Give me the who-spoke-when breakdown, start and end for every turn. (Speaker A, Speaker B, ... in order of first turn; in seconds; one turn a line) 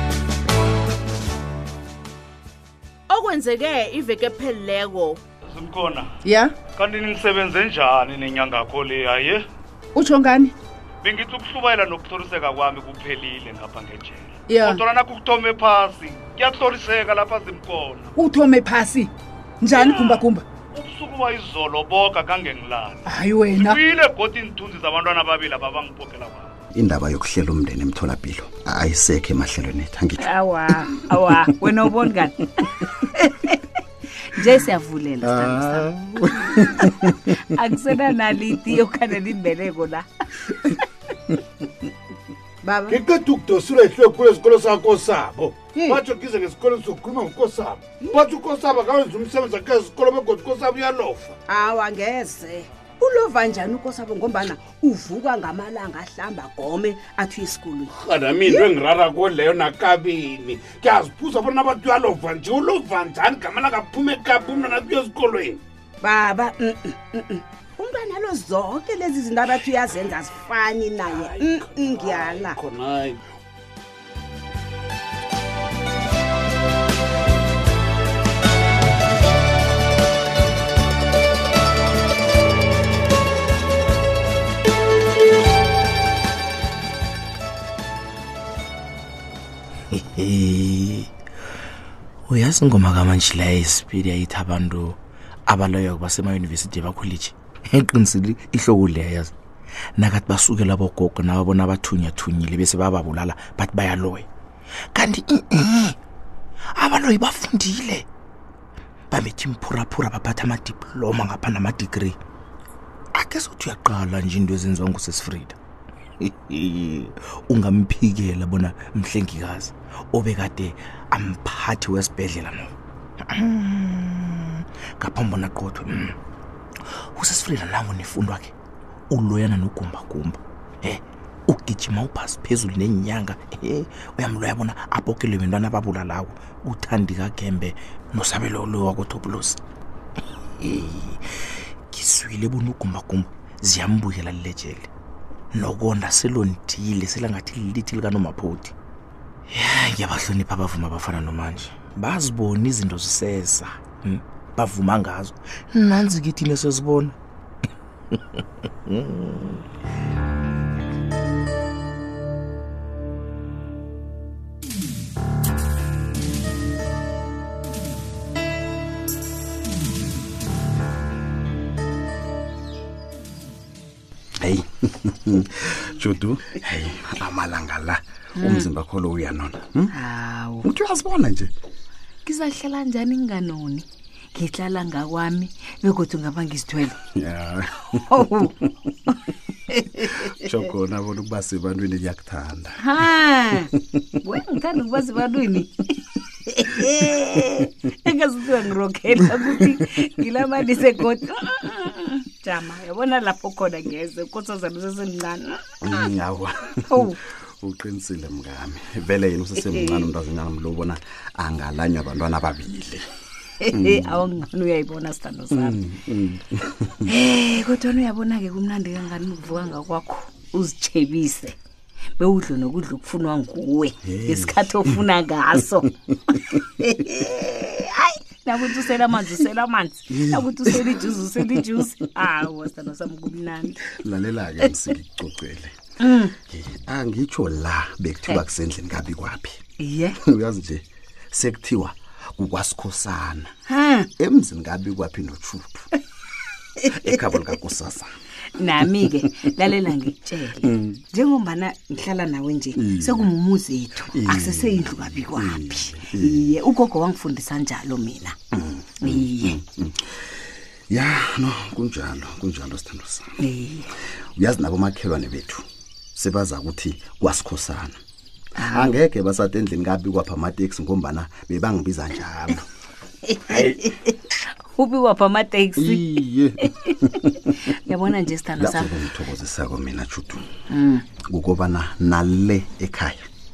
Speaker A: 3.1-5.2
Speaker B: 5.5-9.5
Speaker C: 10.0-10.5
Speaker B: 11.0-18.1
Speaker C: 14.5-14.8
Speaker C: 18.2-19.1
Speaker C: 19.6-20.4
Speaker B: 19.7-26.5
Speaker C: 23.1-23.8
Speaker D: 26.8-30.3
Speaker E: 30.2-33.6
Speaker E: 34.2-40.1
Speaker D: 35.2-37.1
Speaker F: 42.6-43.0
Speaker G: 42.9-51.4
Speaker F: 51.5-57.9
Speaker G: 57.9-65.6
Speaker F: 58.5-58.7
Speaker F: 66.0-72.6
Speaker G: 71.1-73.2
Speaker H: 89.9-91.1
Speaker H: 92.3-99.3
Speaker H: 100.0-104.3
Speaker H: 105.0-106.0
Speaker H: 106.8-108.1
Speaker H: 109.1-112.2
Speaker H: 113.2-115.6
Speaker H: 116.2-122.7
Speaker H: 123.3-126.2
Speaker H: 127.2-128.5
Speaker H: 129.1-139.6
Speaker H: 140.6-141.2
Speaker H: 141.9-144.9
Speaker H: 145.5-148.7
Speaker H: 149.5-157.2
Speaker H: 158.1-159.6
Speaker D: 174.4-179.9
Speaker E: 178.4-178.7
Speaker E: 179.9-180.7
Speaker D: 180.6-181.5
Speaker E: 182.2-187.0
Speaker D: 187.2-188.2
Speaker E: 188.1-188.5
Speaker D: 190.2-192.8
Speaker E: 192.8-195.8
Speaker E: 196.5-205.6
Speaker D: 199.4-199.8
Speaker D: 205.8-213.1
Speaker E: 206.9-207.2
Speaker E: 213.6-215.8
Speaker D: 213.7-214.3
Speaker D: 215.5-217.0
Speaker E: 217.1-221.6
Speaker E: 222.2-234.0
Speaker D: 224.0-225.0
Speaker D: 230.1-231.8
Speaker D: 234.0-239.6
Speaker E: 236.0-236.3
Speaker E: 239.8-240.2
Speaker D: 240.2-243.5
Speaker E: 243.7-244.1
Speaker D: 244.2-245.8
Speaker D: 246.9-248.1
Speaker E: 248.5-258.4
Speaker D: 250.6-251.0
Speaker D: 252.8-253.3
Speaker D: 254.1-256.5
Speaker D: 258.5-260.2
Speaker E: 259.0-259.6
Speaker D: 260.9-263.4
Speaker E: 263.4-263.9
Speaker D: 264.4-265.6
Speaker D: 266.2-268.0
Speaker E: 268.6-268.9
Speaker D: 268.7-272.6
Speaker E: 273.5-273.8
Speaker E: 274.7-278.9
Speaker D: 275.8-277.5
Speaker D: 278.6-280.5
Speaker E: 280.7-281.0
Speaker D: 281.3-283.2